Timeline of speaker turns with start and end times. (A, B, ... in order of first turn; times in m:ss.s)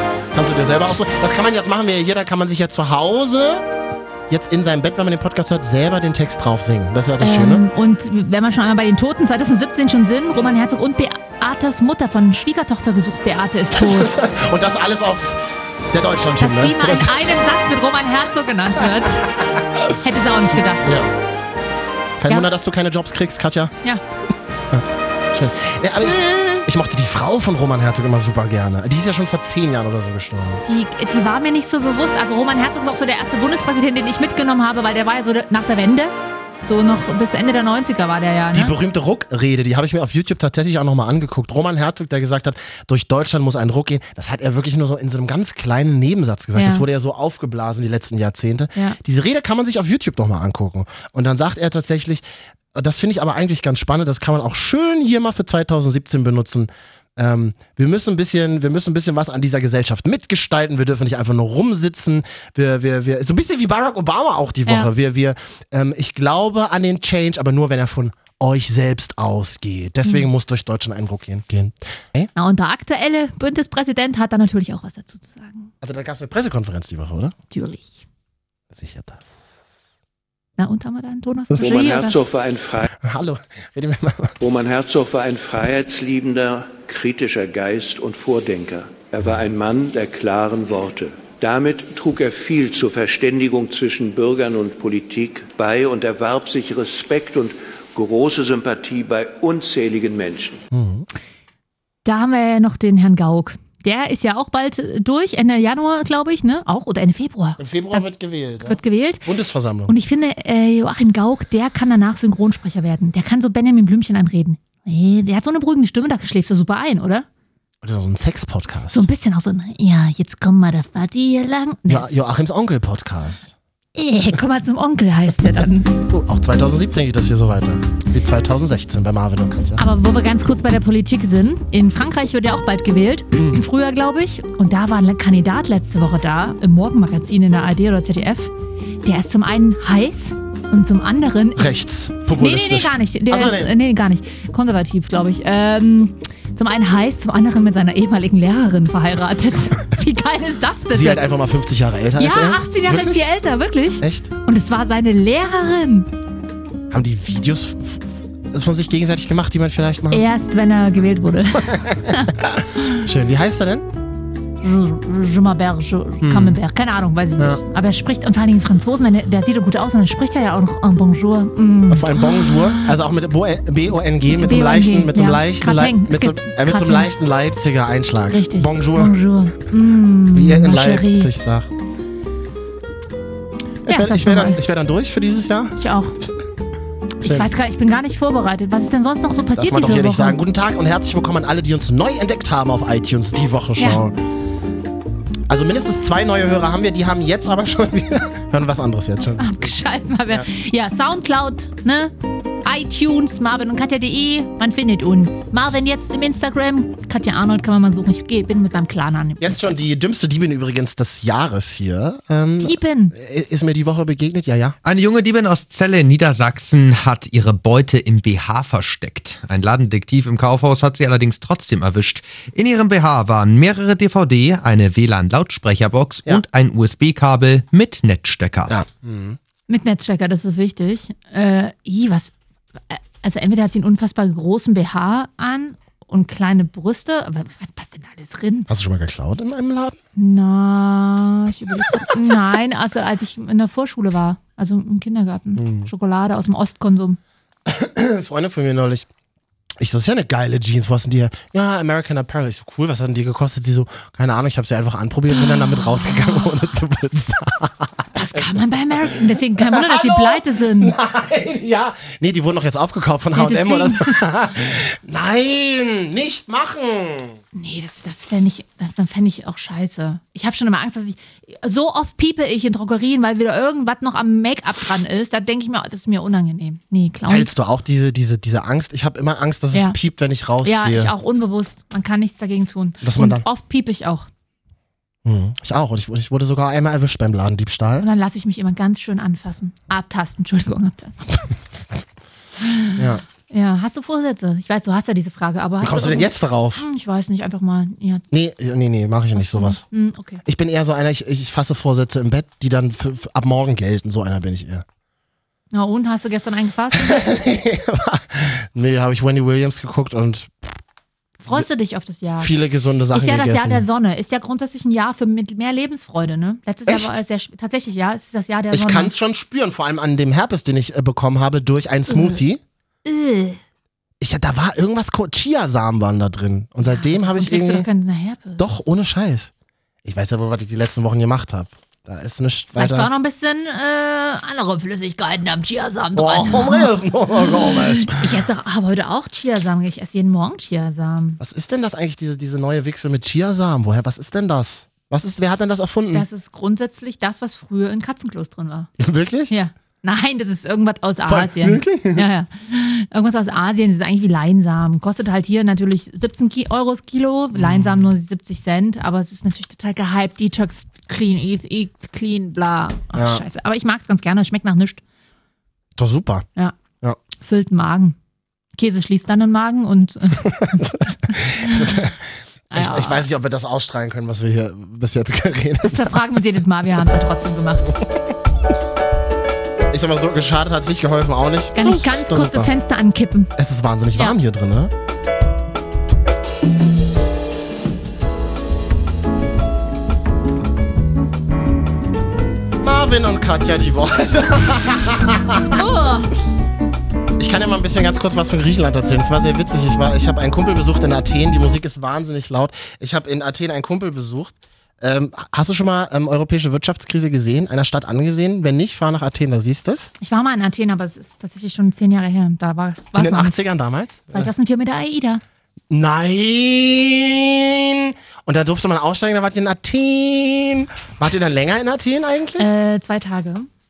0:00.3-0:03.7 A
0:04.3-0:07.7 A
0:07.2-0:14.2 B
0:13.7-0:17.3 A
0:16.4-0:19.3 B
0:20.0-0:20.9 B
0:20.8-0:21.1 A
0:22.2-0:23.7 A
0:24.7-0:30.6 A
0:26.0-0:26.7 B
0:30.6-0:38.7 B
0:38.5-1:12.3 A
0:46.6-0:46.9 B
1:12.4-1:15.7 B
1:15.8-1:17.4 A
1:17.5-1:18.0 B
1:18.7-1:19.3 A
1:20.6-1:22.2 B
1:21.6-1:22.9 C
1:23.0-1:24.4 A
1:24.4-1:40.6 C
1:40.7-1:41.1 A
1:42.0-1:48.1 B
1:47.6-1:49.9 A
1:48.6-1:49.3 B
1:49.9-1:57.3 B
1:57.8-1:59.1 A
1:58.9-2:02.2 B
2:01.9-2:03.6 A
2:04.0-2:06.0 B
2:06.0-2:09.8 A
2:09.8-2:18.5 B
2:13.3-2:13.6 A
2:19.0-2:21.8 B
2:21.6-2:23.8 A
2:22.3-2:31.3 B
2:30.9-2:33.2 A
2:32.2-2:36.1 B
2:34.0-2:34.3 A
2:36.9-2:40.2 A
2:40.1-2:42.3 B
2:41.6-2:43.9 A
2:44.6-2:53.0 B
2:46.2-2:46.6 A
2:51.9-2:59.2 A
2:54.3-2:57.1 B
2:58.3-3:01.3 B
3:00.3-3:01.7 A
3:03.8-3:05.8 A
3:03.9-3:04.6 B
3:05.8-3:06.2 B
3:07.2-3:10.4 B
3:07.2-3:07.5 A
3:09.6-3:14.2 A
3:15.5-3:19.6 A
3:19.4-3:22.1 B
3:22.6-3:29.7 B
3:29.4-3:34.8 A
3:32.6-3:33.2 B
3:34.8-3:48.7 D
3:48.7-3:49.4 A
3:49.7-3:52.3 B
3:52.9-3:58.7 B
3:58.7-4:00.0 A
4:00.2-4:07.2 B
4:05.6-4:05.9 A
4:07.7-4:09.1 A
4:09.8-4:27.4 A
4:15.6-4:16.3 B
4:18.2-4:20.9 B
4:23.4-4:24.2 B
4:27.5-4:37.5 B
4:37.3-4:41.1 A
4:40.6-4:44.3 B
4:43.0-4:43.5 A
4:45.2-4:48.1 A
4:48.0-4:51.4 B
4:52.6-4:58.2 B
4:53.0-4:53.2 A
4:55.8-4:56.9 A
4:58.3-4:59.8 A
4:59.4-5:00.4 B
5:00.4-5:04.8 A
5:05.7-5:07.3 B
5:06.9-5:10.8 A
5:11.4-5:12.5 B
5:12.4-5:13.8 A
5:13.1-5:19.1 B
5:16.9-5:17.2 A
5:18.7-5:22.6 A
5:22.1-5:22.4 B
5:23.0-5:23.6 B
5:24.2-5:27.9 A
5:26.8-5:28.6 B
5:28.6-5:29.5 A
5:30.0-5:33.1 A
5:32.8-5:41.4 B
5:36.2-5:38.4 A
5:41.4-5:46.3 A
5:46.1-5:48.9 B
5:49.0-5:49.5 A
5:49.5-6:05.0 B
5:51.3-5:52.3 A
5:57.6-5:58.1 A
6:03.2-6:03.4 A
6:06.0-6:06.5 A
6:07.4-6:08.2 B
6:08.8-6:12.0 B
6:10.4-6:12.2 A
6:12.7-6:13.2 B
6:12.7-6:16.2 A
6:15.8-6:17.9 B
6:19.9-6:22.7 A
6:21.8-6:23.5 B
6:23.6-6:24.9 A
6:32.8-6:35.8 A
6:35.7-6:36.3 B
6:37.4-6:50.1 A
6:50.2-6:53.6 B
6:53.2-6:54.5 A
6:54.3-6:55.4 B
6:55.9-7:02.7 A
7:02.6-7:03.7 B